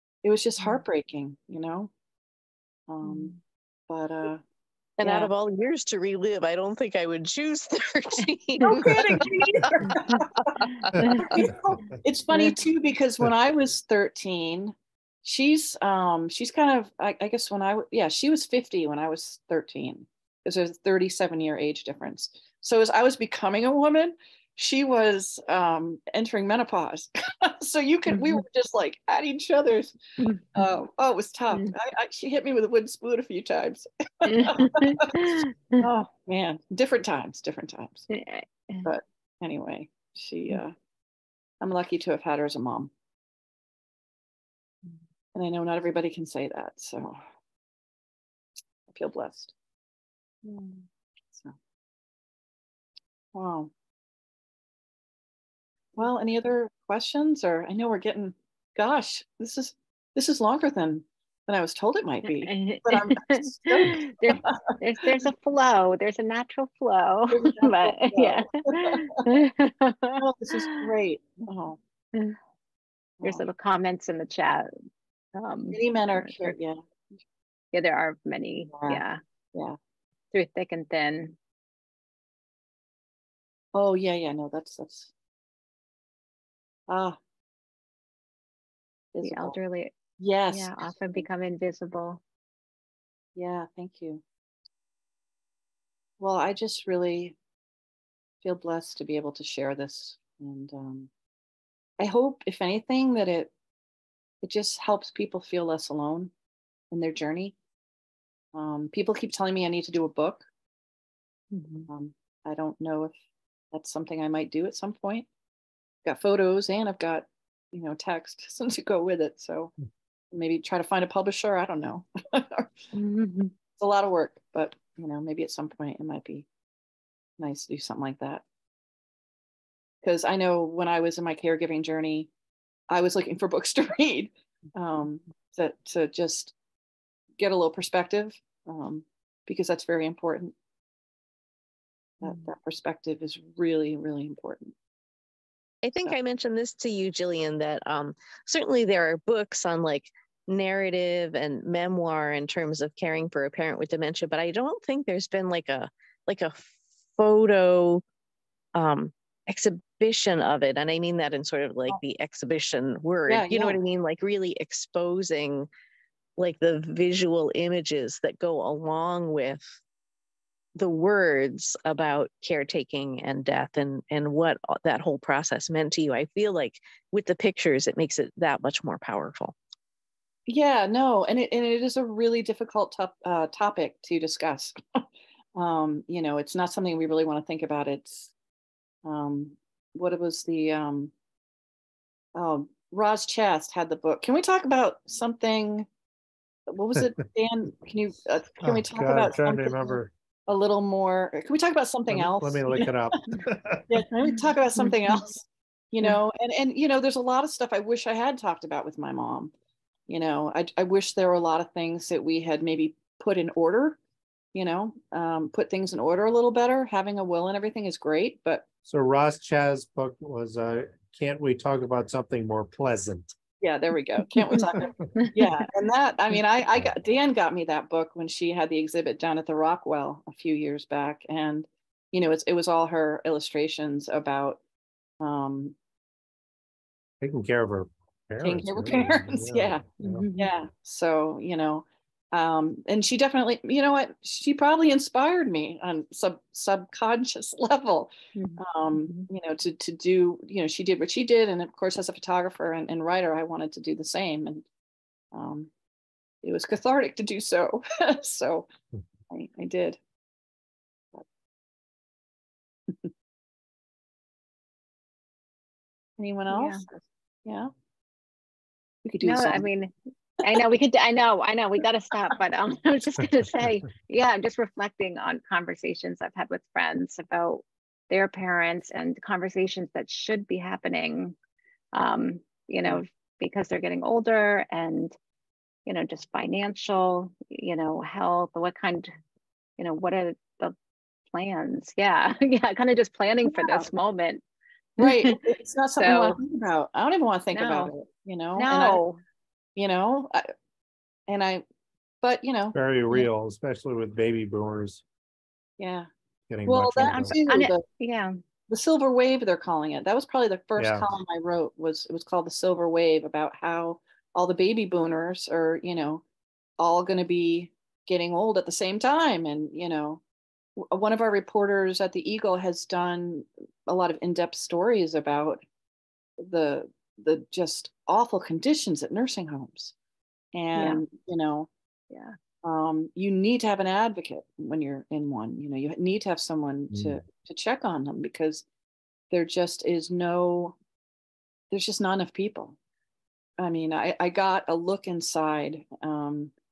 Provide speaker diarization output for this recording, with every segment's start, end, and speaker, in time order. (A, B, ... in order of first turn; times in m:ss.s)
0:00.2-0:01.9 A
0:02.9-0:03.3 A
0:03.0-0:03.4 B
0:03.9-0:04.4 A
0:05.0-0:11.4 C
0:05.0-0:05.3 A
0:08.7-0:10.7 A
0:09.8-0:10.2 B
0:10.7-0:11.4 B
0:11.2-0:30.0 A
0:28.1-0:28.4 B
0:30.2-0:30.7 B
0:30.5-0:38.1 A
0:34.2-0:35.9 B
0:38.1-0:38.9 B
0:38.8-0:40.8 A
0:41.6-0:42.9 A
0:45.3-0:47.2 A
0:48.9-0:49.5 A
0:50.4-0:50.8 B
0:53.3-0:53.7 A
0:56.0-1:04.7 A
1:02.3-1:10.8 B
1:07.3-1:09.2 A
1:10.2-1:11.8 A
1:13.2-1:13.4 A
1:13.2-1:14.7 B
1:15.3-1:16.6 B
1:15.7-1:16.8 A
1:17.7-1:19.2 B
1:18.7-1:19.0 A
1:20.3-1:21.4 B
1:23.7-1:25.1 A
1:26.9-1:27.2 A
1:29.1-1:29.6 A
1:29.2-1:29.9 B
1:30.2-1:31.2 A
1:30.5-1:32.2 B
1:33.3-1:34.2 A
1:36.2-1:37.4 A
1:38.4-1:41.1 A
1:42.0-1:43.5 A
1:44.4-1:46.3 A
1:46.9-1:47.6 A
1:48.5-1:50.5 A
1:51.5-1:51.9 B
1:51.9-1:53.1 A
1:53.7-1:55.3 A
1:56.0-1:59.7 A
2:00.3-2:02.8 A
2:02.9-2:03.5 B
2:03.8-2:06.5 A
2:07.4-2:08.4 A
2:10.0-2:12.3 A
2:12.9-2:16.5 A
2:17.4-2:20.5 A
2:22.2-2:24.7 A
2:25.8-2:38.0 C
2:38.7-2:45.7 C
2:43.3-2:43.8 A
2:46.4-2:49.7 C
2:50.7-2:59.5 C
3:00.5-3:05.0 A
3:05.5-3:08.3 A
3:09.0-3:11.1 A
3:12.3-3:15.9 A
3:16.7-3:23.2 A
3:18.6-3:20.1 D
3:22.1-3:23.9 D
3:23.9-3:29.5 A
3:24.8-3:25.2 B
3:30.1-3:34.0 A
3:34.5-3:38.7 A
3:38.9-3:43.3 D
3:43.6-3:54.6 A
3:44.6-3:45.1 D
3:45.2-3:45.5 B
3:55.2-3:55.8 A
3:57.2-4:00.3 D
3:58.4-4:14.6 A
4:00.0-4:00.5 B
4:08.3-4:09.3 B
4:15.3-4:15.7 A
4:16.4-4:18.7 A
4:19.3-4:20.0 A
4:26.2-4:27.7 A
4:26.5-4:26.8 B
4:29.0-4:29.7 A
4:29.2-4:41.4 B
4:41.9-4:45.1 B
4:45.8-4:49.1 B
4:49.8-4:50.7 B
4:51.3-4:54.4 B
4:53.4-4:53.9 A
4:55.0-4:59.0 A
4:55.0-4:55.4 B
4:56.0-4:56.4 B
4:57.5-4:57.9 B
4:58.6-4:59.2 B
4:59.8-5:00.5 A
5:01.3-5:01.6 A
5:02.2-5:02.8 A
5:02.7-5:05.0 D
5:05.8-5:06.1 A
5:06.5-5:07.4 D
5:06.6-5:07.8 A
5:07.1-5:08.3 B
5:08.7-5:16.2 A
5:10.8-5:11.1 D
5:16.8-5:20.2 A
5:20.8-5:25.6 A
5:26.4-5:29.9 A
5:30.5-5:31.7 A
5:30.8-5:31.0 B
5:32.1-5:32.4 B
5:32.6-5:38.6 A
5:36.9-5:37.2 D
5:39.3-5:40.8 A
5:41.7-5:42.8 A
5:43.6-5:46.5 A